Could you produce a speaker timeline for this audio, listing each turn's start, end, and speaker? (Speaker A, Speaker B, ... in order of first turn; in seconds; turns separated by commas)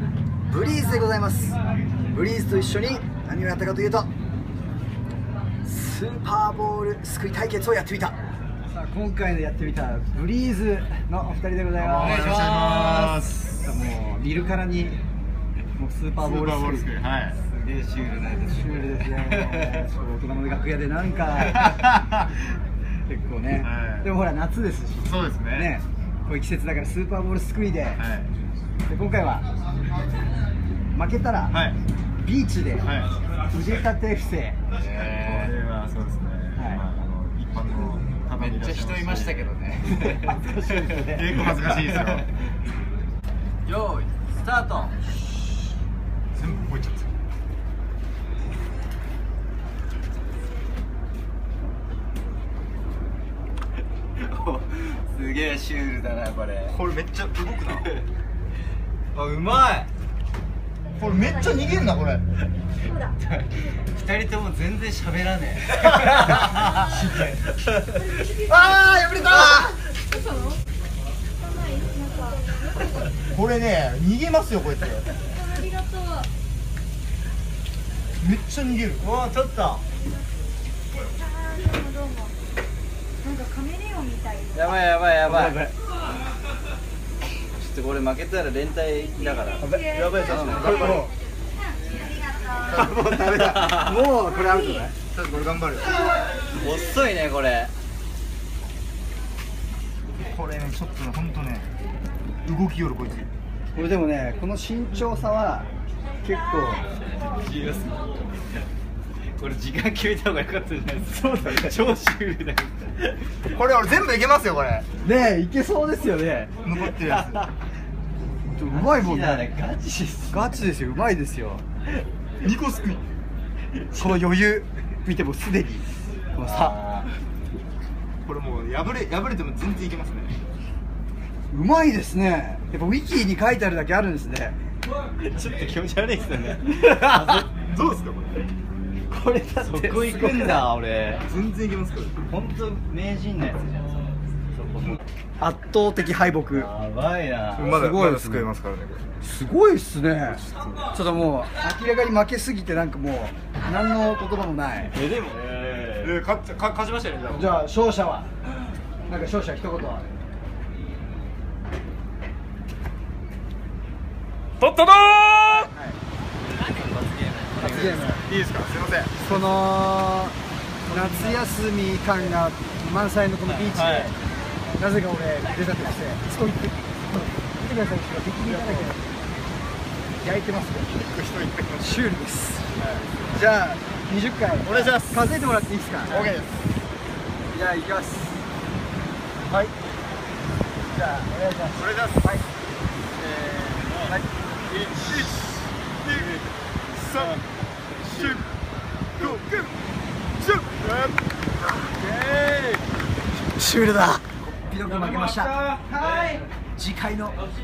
Speaker A: 0.5-1.6, Speaker A: 2.1-4.1, Speaker A: 5.6-8.2, Speaker A: 8.7-12.3, Speaker B: 11.8-13.7, Speaker C: 12.0-13.3, Speaker A: 13.6-15.0, Speaker A: 15.8-16.9, Speaker B: 16.2-17.4, Speaker C: 17.4-19.8, Speaker A: 18.6-21.8, Speaker A: 23.1-28.0, Speaker B: 23.6-24.1, Speaker B: 25.1-25.7, Speaker B: 28.0-28.3, Speaker A: 28.9-29.4, Speaker A: 30.9-31.5, Speaker B: 31.5-31.8, Speaker A: 32.2-32.9, Speaker B: 32.9-33.1, Speaker A: 33.5-34.6, Speaker C: 34.7-35.5, Speaker B: 34.9-39.5, Speaker A: 36.6-36.8, Speaker C: 38.3-40.3, Speaker A: 40.0-41.2, Speaker B: 41.0-42.3, Speaker C: 43.7-45.0, Speaker B: 46.4-47.1, Speaker C: 54.2-56.8, Speaker B: 56.7-57.9, Speaker C: 59.1-59.9, Speaker B: 61.0-62.2, Speaker C: 63.3-68.4, Speaker D: 68.0-69.5, Speaker B: 68.5-69.6, Speaker D: 70.1-70.6, Speaker D: 71.4-72.7, Speaker B: 73.3-75.0, Speaker D: 75.4-76.3, Speaker B: 78.2-79.1, Speaker C: 79.0-79.8, Speaker D: 81.2-82.3, Speaker D: 83.2-84.6, Speaker C: 84.5-85.6, Speaker A: 85.2-85.7, Speaker C: 87.6-91.0, Speaker A: 89.6-91.1, Speaker D: 89.7-90.2, Speaker B: 89.7-91.1, Speaker D: 91.9-92.7, Speaker B: 92.7-93.7, Speaker A: 92.8-95.0, Speaker C: 93.1-93.9, Speaker B: 95.1-96.1, Speaker C: 96.6-97.7, Speaker B: 100.2-101.7, Speaker B: 102.5-103.3, Speaker A: 103.7-105.7, Speaker A: 106.2-106.8, Speaker C: 107.1-108.2, Speaker C: 109.3-113.4, Speaker A: 111.2-111.8, Speaker B: 113.5-114.9, Speaker A: 115.0-116.5, Speaker B: 116.6-117.5, Speaker C: 117.1-117.5, Speaker A: 118.5-119.5, Speaker C: 118.7-120.6, Speaker A: 120.3-121.6, Speaker B: 122.4-123.0, Speaker A: 123.9-126.8, Speaker C: 126.4-127.1, Speaker B: 128.2-130.4, Speaker A: 131.5-134.6, Speaker C: 135.2-137.4, Speaker B: 137.6-138.7, Speaker C: 139.1-141.2, Speaker A: 139.1-140.7, Speaker B: 141.3-142.2, Speaker C: 142.3-145.0, Speaker A: 145.4-146.7, Speaker C: 146.5-147.8, Speaker B: 147.6-149.1, Speaker A: 147.7-148.5, Speaker A: 149.2-154.9, Speaker C: 154.9-156.2, Speaker B: 156.0-157.6, Speaker A: 157.3-158.3, Speaker A: 159.1-160.1, Speaker B: 164.6-165.7, Speaker C: 166.5-168.1, Speaker A: 167.6-168.2, Speaker B: 167.7-169.3, Speaker A: 169.2-170.3, Speaker A: 170.9-174.1, Speaker C: 170.9-171.2, Speaker B: 173.7-174.1, Speaker A: 174.8-179.0, Speaker B: 178.5-178.9, Speaker A: 180.2-181.0, Speaker B: 181.0-182.1, Speaker A: 181.8-182.7, Speaker B: 182.8-183.1, Speaker A: 183.3-186.3, Speaker B: 184.6-185.2, Speaker B: 186.1-186.7, Speaker A: 187.5-188.4, Speaker B: 189.4-189.8, Speaker A: 190.9-192.4, Speaker B: 191.8-192.3, Speaker C: 193.5-193.9, Speaker B: 194.7-195.5, Speaker B: 196.0-196.4, Speaker B: 197.0-197.4, Speaker B: 198.1-198.5, Speaker B: 199.2-199.8, Speaker B: 200.4-201.2, Speaker A: 203.5-207.4, Speaker C: 205.6-206.4